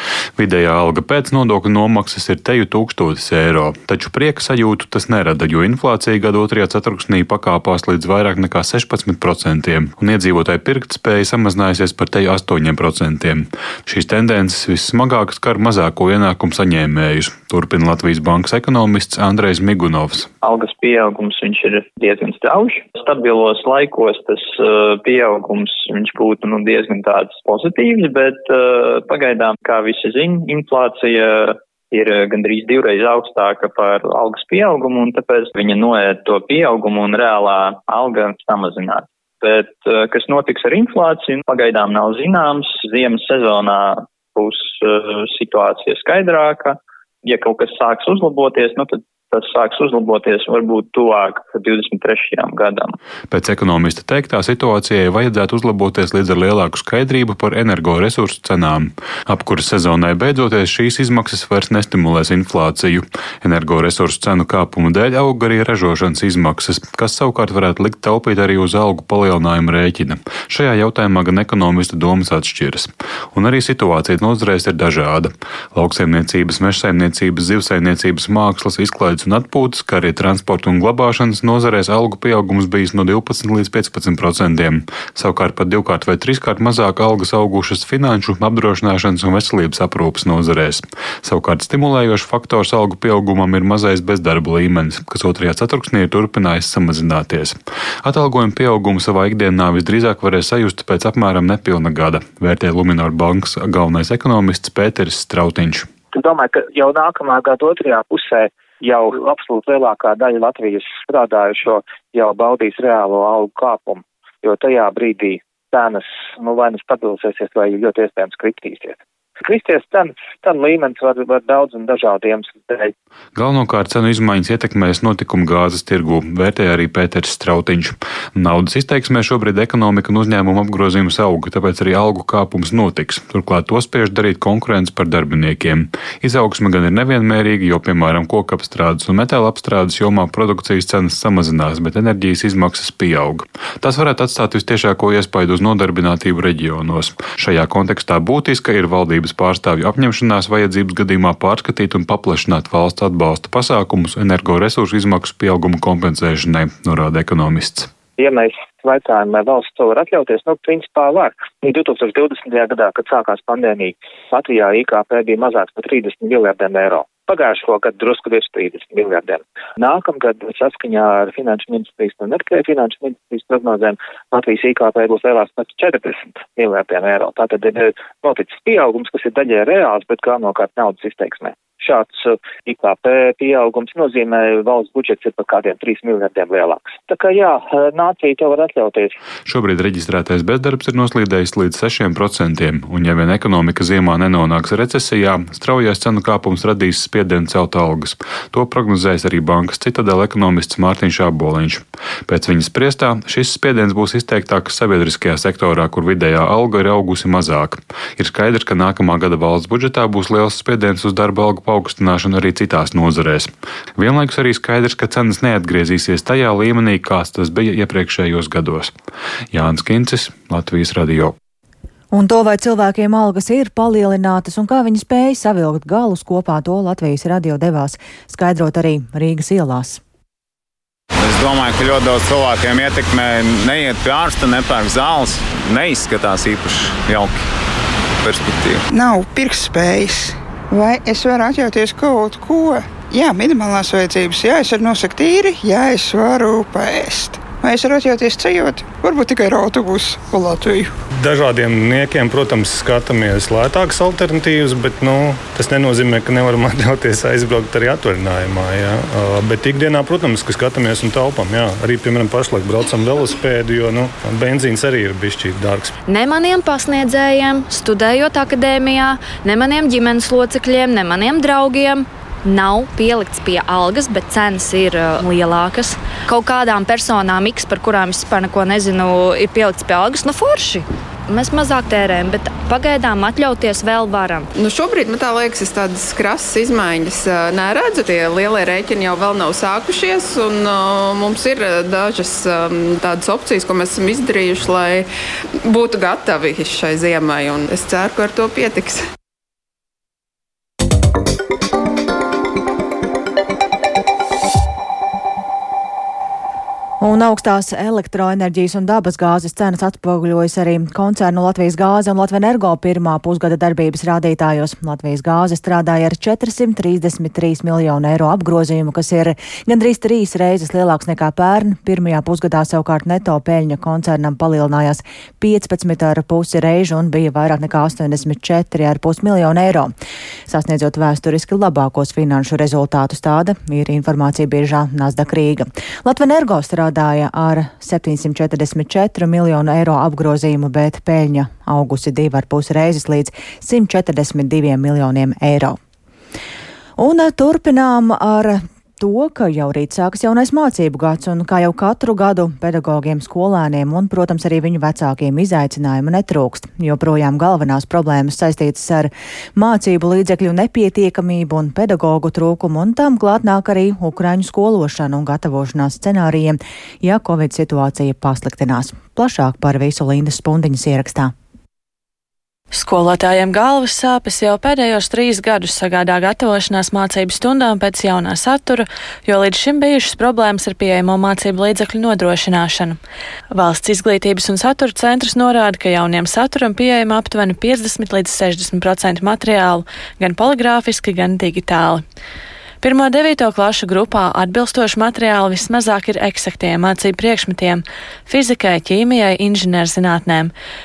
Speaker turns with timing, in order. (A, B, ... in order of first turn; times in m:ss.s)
0:00.4-0:20.3 A
0:20.4-0:52.9 B
0:53.3-1:45.9 A
1:46.1-2:02.9 C
2:03.3-2:37.9 A
2:38.2-3:09.1 C
3:09.4-3:38.9 A
3:39.5-3:41.3 A
3:42.1-3:50.0 D
3:51.2-3:57.4 E
3:58.2-3:58.8 E
3:58.9-4:10.9 F
4:11.2-4:25.9 G
4:26.1-4:44.5 H
4:44.6-4:55.1 I
4:55.6-4:59.0 I
5:07.0-5:29.9 D
5:30.5-5:45.8 D
5:47.0-6:11.3 D
6:12.7-6:23.0 J
6:23.5-6:32.0 J
6:32.8-6:40.5 J